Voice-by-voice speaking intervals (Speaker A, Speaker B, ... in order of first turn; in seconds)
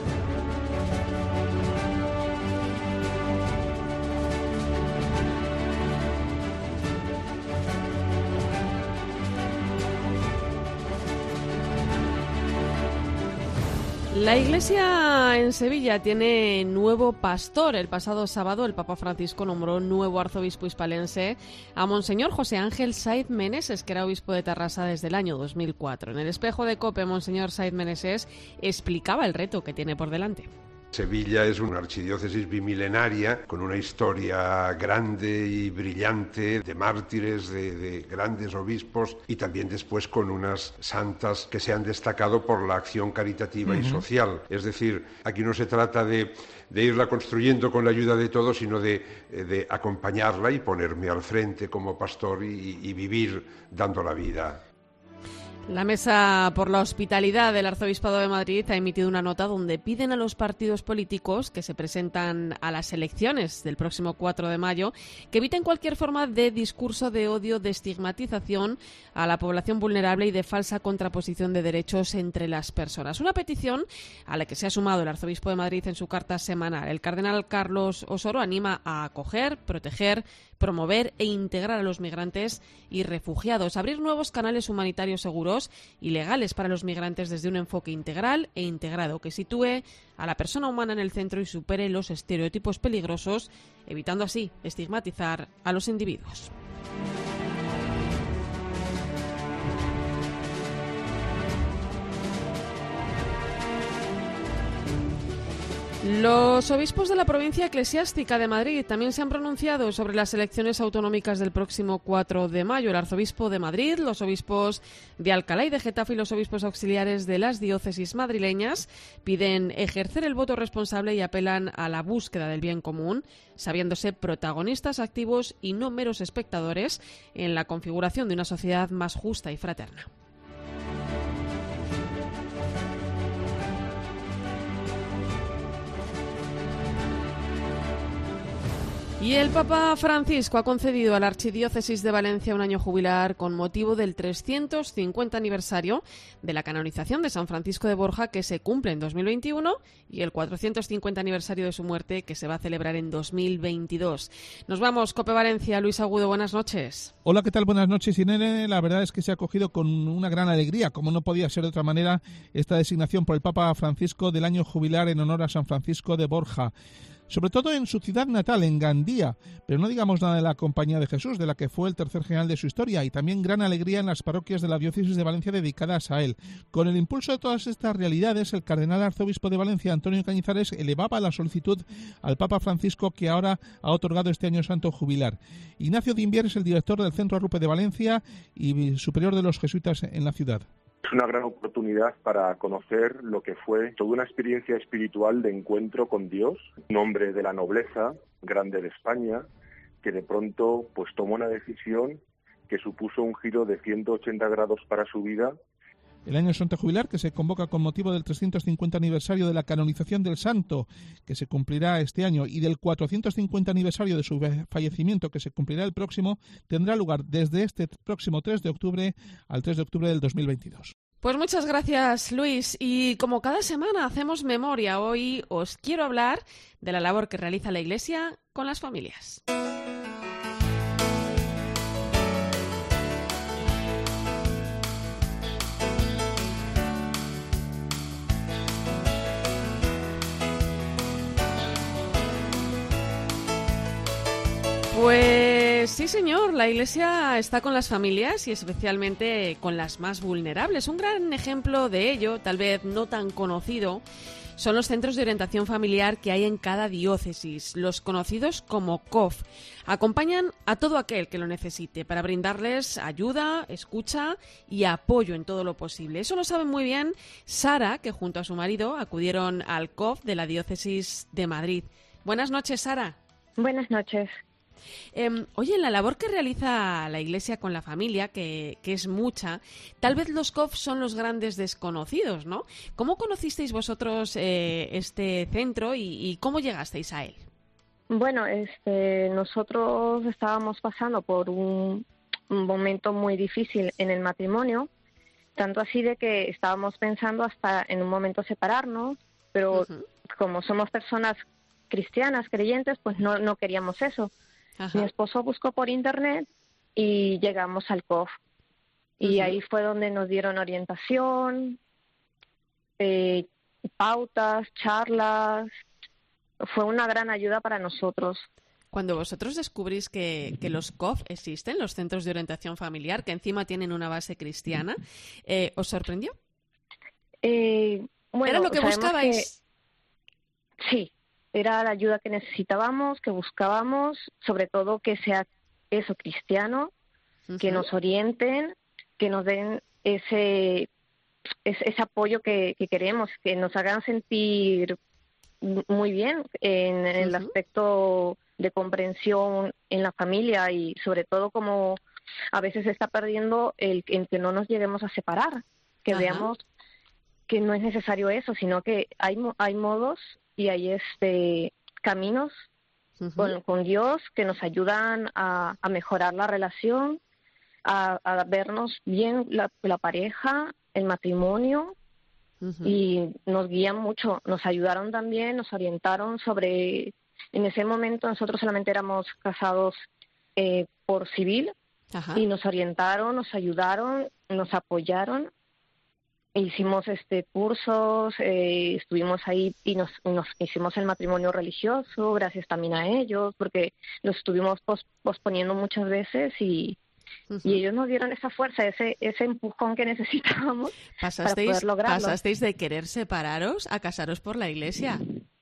Speaker A: 14.1-30.5, 55.7-96.5, 106.0-130.1, 139.2-157.1, 221.2-229.4, 244.9-254.0, 254.6-273.2, 275.1-287.5, 299.7-300.1, 304.8-305.1, 309.2-309.6, 318.9-326.3, 328.5-329.6, 337.5-337.9, 347.2-347.5, 356.1-356.5, 363.2-363.5, 372.6-372.9, 382.1-382.4, 397.5-397.8, 401.2-405.2
Speaker B: 30.9-54.6
Speaker C: 43.7-44.0, 157.2-166.7, 167.3-190.7, 206.3-220.9
Speaker D: 191.1-199.5, 200.0-205.6
Speaker E: 273.6-274.4, 288.1-294.9, 295.6-304.3, 304.9-308.3, 309.2-311.8, 313.0-313.5, 314.0-315.7, 316.6-318.5, 327.4-329.4, 330.8-336.9, 337.6-340.9, 341.7-345.0, 345.6-352.0, 352.5-356.6, 357.5-362.6, 363.4-367.2, 367.9-371.9, 372.8-380.0, 380.6-381.7, 382.4-385.5, 386.6-397.0, 397.6-402.4